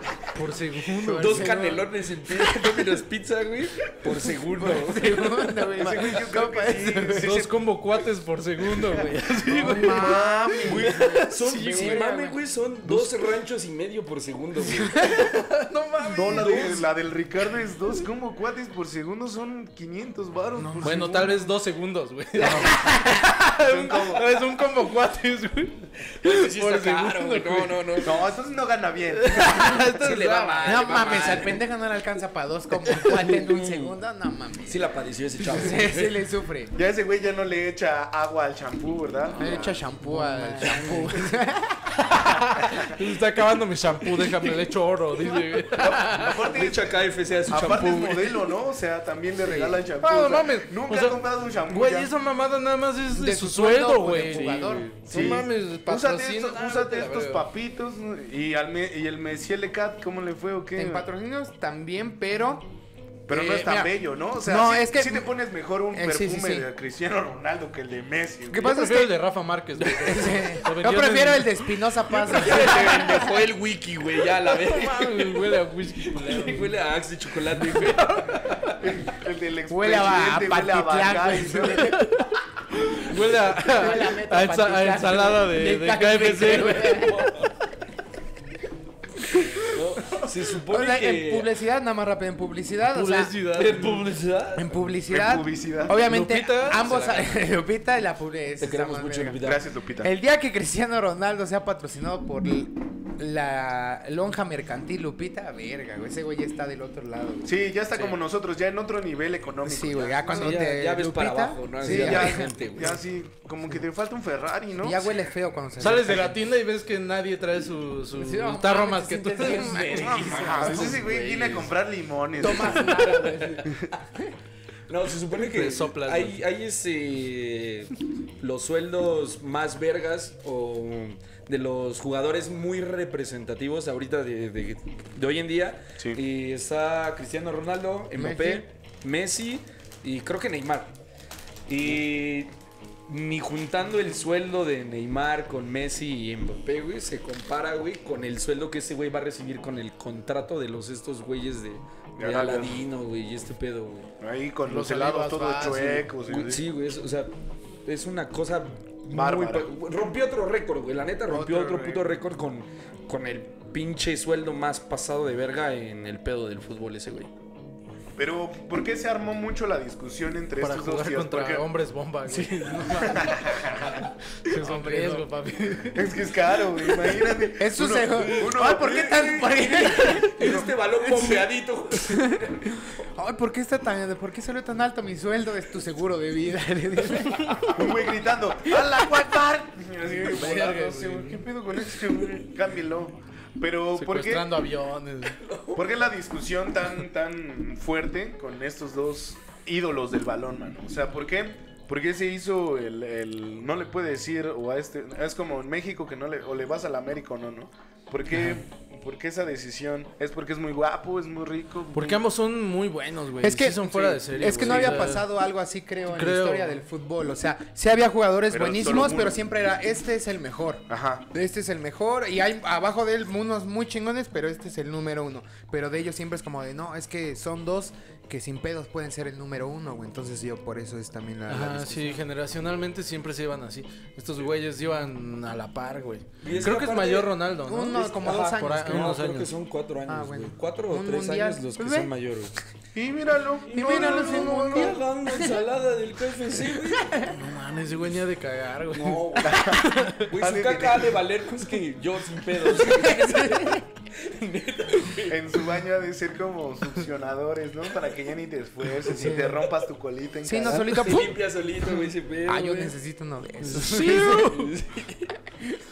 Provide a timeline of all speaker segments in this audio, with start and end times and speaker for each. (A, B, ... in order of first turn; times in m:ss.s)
0:00.3-0:01.5 A
0:00.8-0:01.9 B
0:01.1-0:05.6 C
0:04.5-0:07.4 B
0:05.7-0:07.6 D
0:07.2-0:10.2 A
0:08.8-0:12.4 B
0:09.6-0:11.0 D
0:10.6-0:15.3 C
0:10.9-0:12.0 A
0:14.9-0:15.2 B
0:15.0-0:16.8 A
0:16.1-0:21.5 D
0:20.6-0:21.0 B
0:20.8-0:27.8 A
0:22.4-0:23.3 B
0:23.5-0:24.3 D
0:26.2-0:28.3 C
0:28.0-0:30.0 D
0:29.1-0:31.3 A
0:29.9-0:31.6 C
0:30.6-0:36.7 B
0:33.0-0:33.9 C
0:34.6-0:36.2 C
0:36.7-0:39.8 D
0:39.4-0:42.0 B
0:40.0-0:41.3 A
0:40.6-0:41.1 C
0:41.9-0:46.5 A
0:45.8-0:46.9 D
0:46.4-0:48.4 C
0:47.5-0:52.1 D
0:49.4-0:49.8 B
0:50.0-0:57.5 A
0:53.1-0:54.9 B
0:54.3-0:55.3 C
0:55.1-1:01.0 D
1:00.7-1:02.7 B
1:03.3-1:08.7 D
1:03.3-1:05.3 B
1:05.9-1:06.7 B
1:08.5-1:09.2 B
1:08.6-1:11.6 A
1:09.8-1:13.4 B
1:12.1-1:18.7 C
1:12.3-1:13.2 D
1:14.5-1:16.7 A
1:17.6-1:18.8 A
1:18.8-1:22.0 D
1:19.7-1:22.1 B
1:21.8-1:27.1 A
1:23.6-1:27.5 B
1:26.5-1:27.5 C
1:29.5-1:31.5 C
1:30.6-1:33.4 B
1:32.9-1:34.0 A
1:33.5-1:34.8 C
1:34.5-1:39.4 B
1:35.1-1:36.0 D
1:36.0-1:36.9 A
1:36.8-1:37.4 C
1:38.6-1:39.7 C
1:39.4-1:40.1 D
1:40.0-1:47.5 B
1:47.4-1:50.6 D
1:49.6-1:52.5 B
1:50.3-1:53.0 C
1:51.8-1:55.1 D
1:54.8-1:56.4 B
1:55.8-2:00.9 A
1:58.1-2:01.0 B
1:59.9-2:03.0 D
2:00.0-2:01.7 C
2:02.4-2:04.3 B
2:02.4-2:04.0 C
2:04.9-2:20.9 C
2:05.3-2:06.4 A
2:18.2-2:18.7 B
2:21.7-2:22.5 C
2:23.1-2:34.1 C
2:32.2-2:32.8 D
2:34.2-2:36.6 D
2:34.7-2:35.8 B
2:34.7-2:36.1 A
2:36.2-2:37.3 C
2:37.8-2:47.3 C
2:39.1-2:39.7 D
2:41.3-2:42.0 D
2:48.2-2:51.7 D
2:50.6-2:53.7 A
2:52.3-2:54.0 D
2:54.4-2:56.1 A
2:54.6-2:55.3 B
2:55.9-2:59.3 D
2:57.6-3:01.5 B
2:58.2-3:02.8 C
3:00.4-3:00.7 D
3:02.0-3:02.5 B
3:03.0-3:07.9 B
3:07.7-3:14.5 D
3:08.7-3:09.3 B
3:10.2-3:11.4 A
3:13.9-3:15.4 A
3:15.4-3:15.8 C
3:15.7-3:32.2 D
3:28.3-3:28.6 A
3:31.9-3:35.3 A
3:33.4-3:52.2 B
3:33.9-3:35.2 D
3:36.1-3:36.8 A
3:38.5-3:39.4 D
3:40.9-3:41.2 D
3:51.5-3:59.5 A
3:56.4-3:57.4 C
3:57.6-3:59.2 B
3:57.9-4:02.5 C
4:00.1-4:02.1 B
4:02.9-4:05.0 D
4:03.7-4:05.6 B
4:03.7-4:07.2 C
4:06.7-4:07.3 B
4:07.2-4:10.3 A
4:08.9-4:15.7 C
4:09.4-4:11.1 D
4:12.8-4:13.8 B
4:15.3-4:21.2 D
4:19.0-4:19.7 C
4:19.1-4:19.6 B
4:20.4-4:21.4 B
4:20.6-4:22.9 C
4:22.4-4:24.5 B
4:23.7-4:24.7 A
4:23.8-4:25.4 C